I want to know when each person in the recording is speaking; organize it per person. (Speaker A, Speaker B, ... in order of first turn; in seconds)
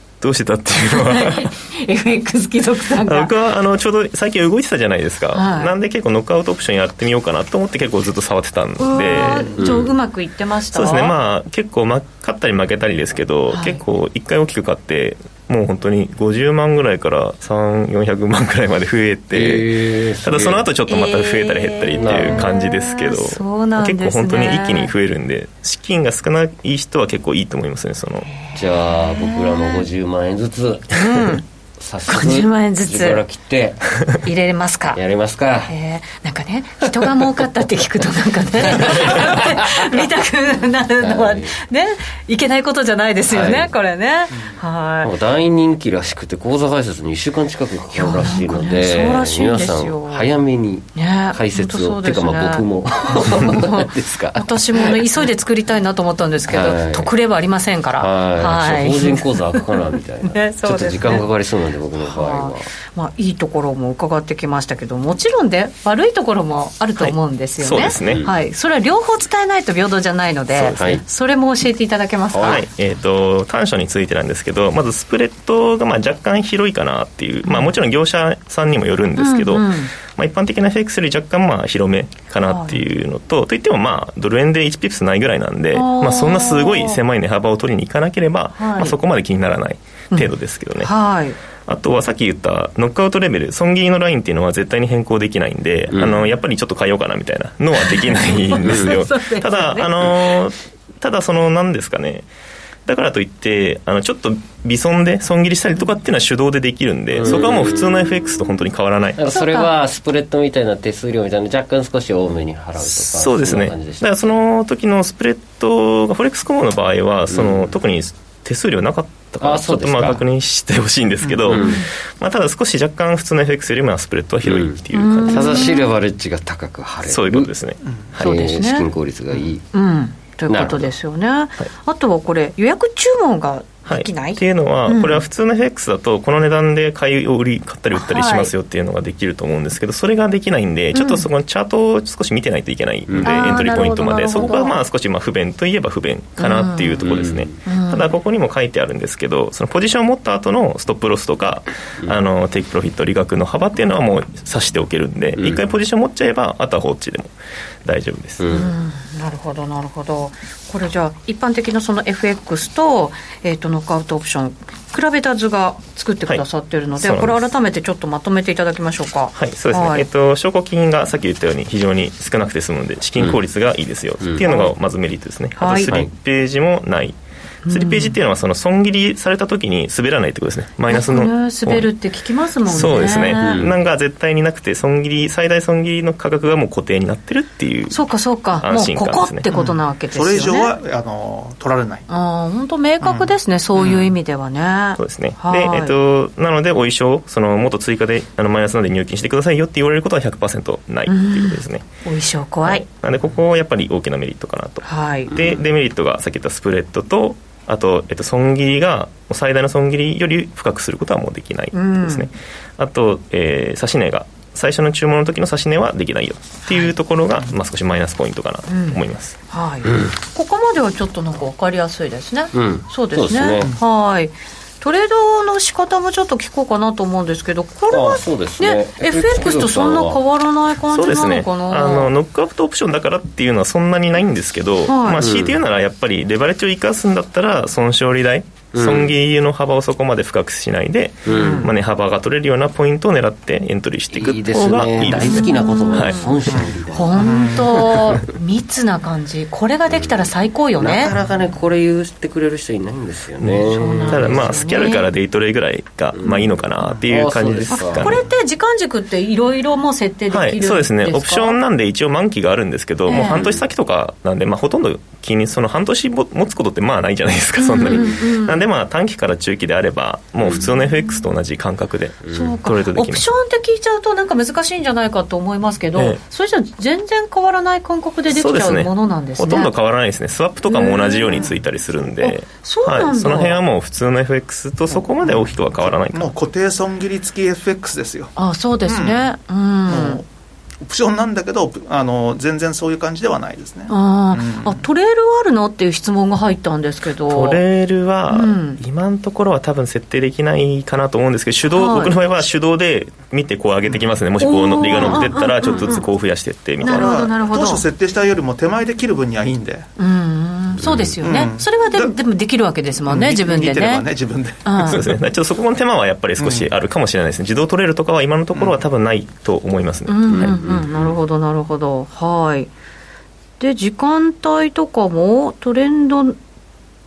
Speaker A: 0.2-1.5, 3.0-9.6, 10.7-28.3, 67.0-68.3, 70.5-70.9, 72.4-90.9, 91.7-102.3, 102.8-109.2, 113.0-125.8, 127.0-128.3, 133.9-157.3, 157.8-158.6, 166.9-167.4, 169.3-181.9, 182.7-188.0, 188.6-189.4, 195.0-201.8, 202.7-219.3, 230.9-246.2, 253.4-258.2, 260.3-273.3, 278.3-286.3, 297.2-307.1, 314.8-320.5
Speaker B: 0.9-3.3, 5.3-5.7, 8.8-11.1, 13.5-13.8, 20.9-24.9, 28.3-29.9, 30.9-31.4, 32.1-33.2, 34.2-35.0, 35.6-45.1, 47.9-50.3, 50.9-61.2, 62.0-72.6, 77.4-77.7, 79.2-79.9, 82.4-82.8, 85.7-87.0, 88.5-89.0, 90.1-91.4, 97.8-100.0, 109.3-109.7, 121.6-121.9, 124.9-125.9, 128.2-128.9, 129.7-135.2, 137.9-138.5, 140.9-141.3, 143.2-144.8, 146.4-147.0, 147.7-148.1, 158.5-170.1, 174.4-174.7, 175.6-175.9, 177.7-178.1, 180.9-183.6, 187.9-190.7, 192.1-195.9, 201.1-202.8, 204.8-205.4, 211.7-212.3, 216.7-216.9, 218.7-232.1, 234.8-235.2, 241.3-241.7, 245.3-246.4, 246.9-251.1, 253.7-255.1, 257.7-261.6, 263.1-263.5, 267.6-268.6, 270.6-271.2, 272.3-279.7, 280.7-281.6, 282.2-283.6, 288.4-290.2, 293.9-297.6, 298.3-298.8, 301.7-302.1, 304.4-306.1, 306.8-307.8, 310.0-314.1, 314.6-315.0, 320.1-322.7, 323.6-326.4
Speaker C: 9.5-9.9, 19.3-20.6, 21.9-22.5, 28.5-34.0, 34.9-35.7, 38.6-40.1, 41.0-41.5, 43.3-43.7, 45.0-55.0, 56.5-57.1, 58.0-62.7, 68.0-68.3, 70.7-71.0, 72.3-72.6, 95.9-96.3, 107.1-108.0, 109.2-114.1, 117.3-117.7, 119.4-120.2, 121.5-121.8, 124.4-127.5, 128.1-129.7, 130.5-130.9, 143.1-143.8, 147.0-147.5, 155.4-155.6, 158.4-158.7, 183.4-183.8, 205.3-205.6, 219.8-220.1, 222.5-223.7, 227.9-230.2, 235.2-235.6, 238.7-239.1, 241.2-241.7, 244.1-248.3, 249.9-250.2, 250.8-254.9, 256.1-258.2, 263.1-263.6, 310.8-311.1, 320.3-321.2
Speaker D: 44.3-44.6, 121.2-121.6, 189.5-192.1, 193.0-194.1, 246.5-248.1, 285.2-285.5, 286.1-288.3, 288.9-289.3, 289.9-290.3, 290.8-294.8, 306.8-309.9, 311.2-312.1, 313.0-315.0, 316.4-316.7